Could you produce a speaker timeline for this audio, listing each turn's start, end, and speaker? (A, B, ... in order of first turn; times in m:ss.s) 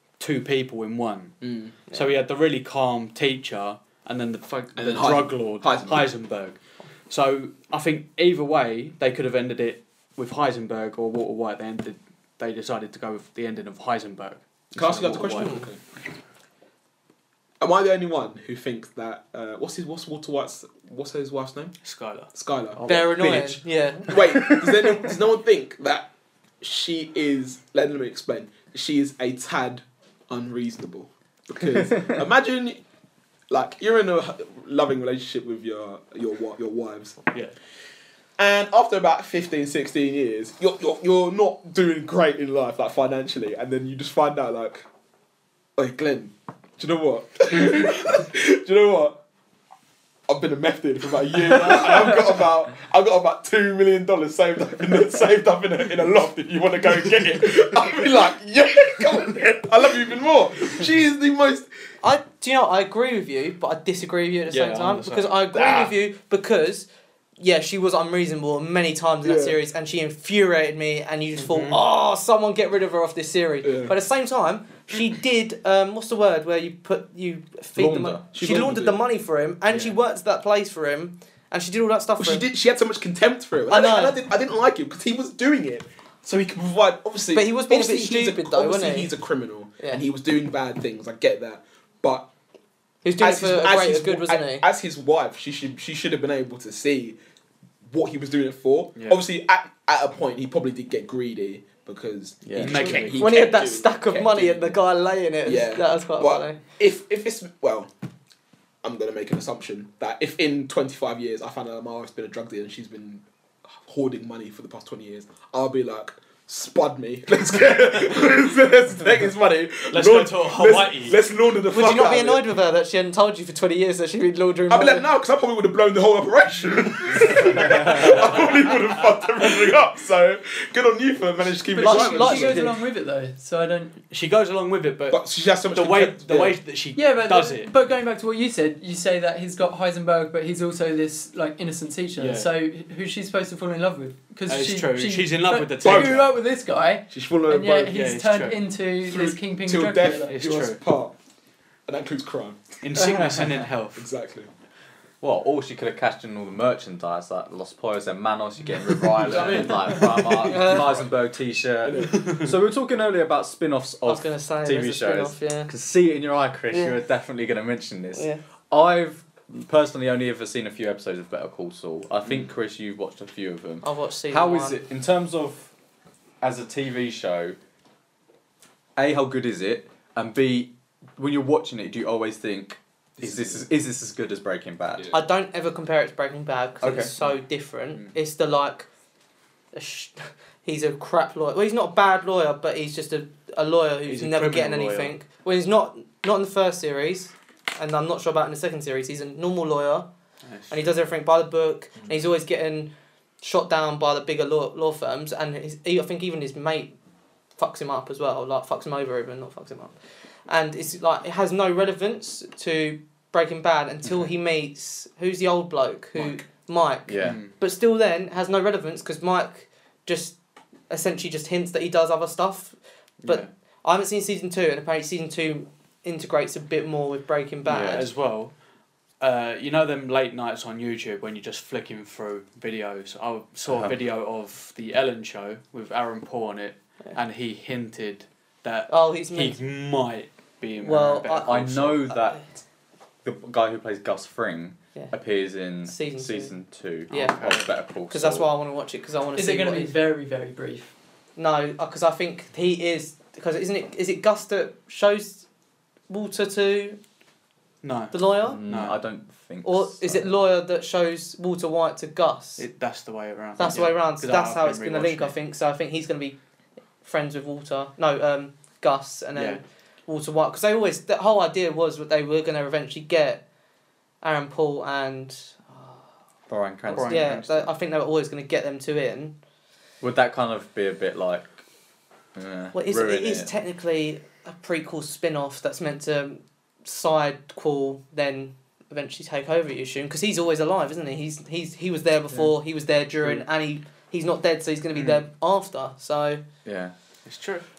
0:00.2-0:15.7 A
0:01.4-0:01.7 B
0:04.8-0:06.1 B
0:14.8-0:15.8 B
0:15.4-0:15.7 C
0:17.6-0:21.8 B
0:21.8-0:22.3 A
0:22.3-0:23.2 B
0:22.8-0:24.6 D
0:22.9-0:24.5 C
0:24.0-0:26.1 B
0:26.6-0:32.8 B
0:33.5-0:37.2 B
0:38.4-0:44.9 B
0:45.8-0:49.2 B
0:50.3-1:01.9 B
1:02.0-1:06.9 C
1:04.5-1:05.5 A
1:05.5-1:06.0 B
1:07.4-1:22.5 C
1:09.2-1:09.6 B
1:11.4-1:11.8 A
1:13.6-1:13.9 B
1:17.8-1:18.2 D
1:18.3-1:19.0 B
1:19.7-1:20.0 A
1:22.2-1:32.3 B
1:23.7-1:24.2 C
1:27.3-1:29.1 C
1:33.0-1:34.6 C
1:33.2-1:37.2 B
1:37.8-1:44.8 B
1:39.0-1:39.2 A
1:42.4-1:42.9 D
1:42.6-1:43.3 A
1:42.8-1:46.6 C
1:45.4-1:47.9 B
1:48.8-2:02.5 B
1:59.9-2:01.2 A
2:01.7-2:05.0 C
2:04.7-2:12.7 B
2:11.7-2:14.0 E
2:11.8-2:12.8 C
2:14.1-2:17.8 A
2:15.1-2:16.6 B
2:17.0-2:30.4 E
2:22.2-2:22.5 A
2:24.5-2:26.3 A
2:25.8-2:26.3 B
2:27.1-2:28.0 B
2:27.9-2:28.7 A
2:29.0-2:31.2 B
2:30.3-2:30.8 A
2:31.9-2:32.8 B
2:32.8-2:34.1 A
2:34.0-2:34.5 B
2:35.2-2:55.7 D
2:39.2-2:40.9 B
2:39.3-2:40.0 A
2:40.4-2:41.1 C
2:41.8-2:42.2 B
2:42.0-2:42.5 A
2:44.0-2:45.7 C
2:46.7-2:47.0 C
2:48.2-2:48.4 C
2:53.8-2:54.8 C
2:56.4-2:57.6 D
2:59.0-3:05.1 D
3:03.2-3:03.6 B
3:05.0-3:05.2 B
3:05.1-3:08.9 C
3:06.8-3:07.1 D
3:09.7-3:20.1 C
3:14.1-3:15.2 A
3:20.4-3:20.9 A
3:20.7-3:26.9 C
3:27.6-3:30.0 C
3:30.5-3:40.4 C
3:37.1-3:37.4 D
3:37.2-3:37.5 A
3:40.9-3:48.1 C
3:43.2-3:43.5 A
3:47.6-3:48.1 D
3:47.8-3:48.5 A
3:49.2-4:02.0 A
3:53.7-3:54.0 D
3:58.9-3:59.6 C
4:00.8-4:02.4 C
4:01.4-4:02.4 D
4:03.2-4:08.5 D
4:05.9-4:06.5 C
4:07.1-4:10.0 C
4:09.4-4:10.9 E
4:11.4-4:15.4 C
4:16.1-4:17.0 C
4:17.8-4:19.0 A
4:18.1-4:18.6 C
4:18.4-4:20.4 D
4:19.6-4:22.7 C
4:22.6-4:25.4 A
4:23.6-4:26.4 C
4:27.0-4:33.4 C
4:29.4-4:29.6 A
4:34.2-4:36.0 C
4:36.5-4:37.7 D
4:36.9-4:37.5 A
4:37.0-4:39.4 C
4:40.0-4:41.6 D
4:42.4-4:43.5 D
4:42.7-4:56.4 C
4:54.9-4:55.3 A
4:56.6-4:56.9 D
4:57.2-4:57.6 A